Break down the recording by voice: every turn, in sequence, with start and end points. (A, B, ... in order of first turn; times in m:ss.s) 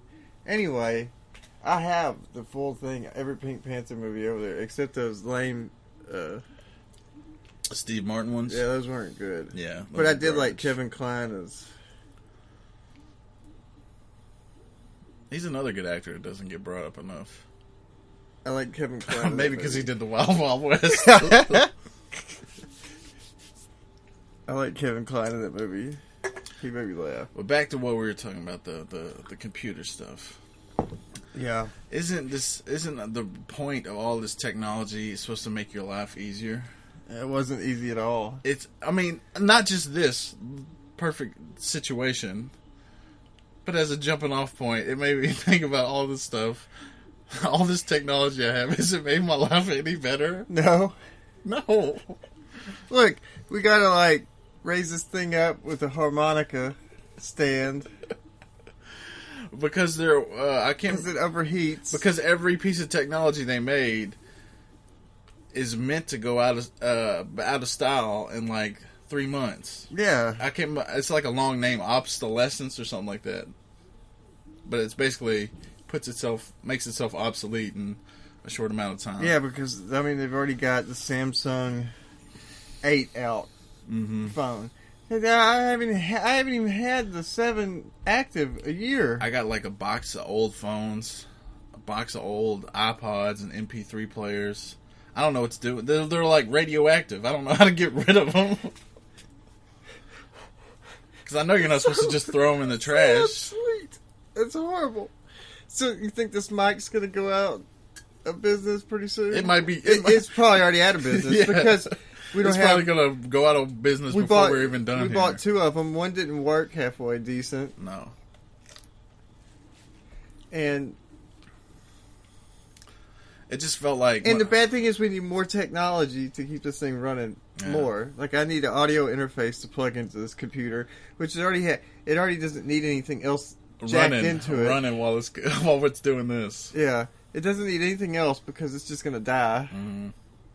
0:00.4-0:06.4 A
0:07.7-0:08.6 B
0:08.5-0:11.7 A
0:09.5-0:10.7 B
0:15.3-0:17.4 B
0:18.4-0:19.9 A
0:19.1-0:21.7 B
0:21.0-0:21.7 A
0:24.5-0:26.0 A
0:26.6-0:27.3 A
0:27.3-0:30.4 B
0:31.3-0:31.7 A
0:31.9-0:36.7 B
0:37.1-0:38.4 A
0:38.4-0:42.5 B
0:43.6-0:46.7 B
0:47.3-0:50.5 B
0:50.5-0:51.0 A
0:51.4-0:52.2 B
0:52.9-0:57.9 A
0:59.5-1:01.1 B
1:00.9-1:02.0 A
1:01.9-1:04.2 B
1:05.5-1:09.9 B
1:09.9-1:10.4 A
1:10.4-1:13.5 B
1:14.6-1:19.4 B
1:19.2-1:21.9 A
1:22.8-1:23.5 A
1:23.9-1:24.4 B
1:24.2-1:29.2 A
1:29.2-1:38.7 B
1:41.2-1:43.5 B
1:42.8-1:45.1 A
1:45.7-1:47.6 A
1:48.2-1:52.9 A
1:49.3-1:55.4 B
1:54.1-1:57.7 A
1:57.8-1:58.1 B
2:00.5-2:01.0 A
2:03.5-2:04.6 B
2:04.2-2:14.8 A
2:07.6-2:07.9 B
2:13.8-2:16.7 B
2:16.7-2:19.7 A
2:19.7-2:20.1 B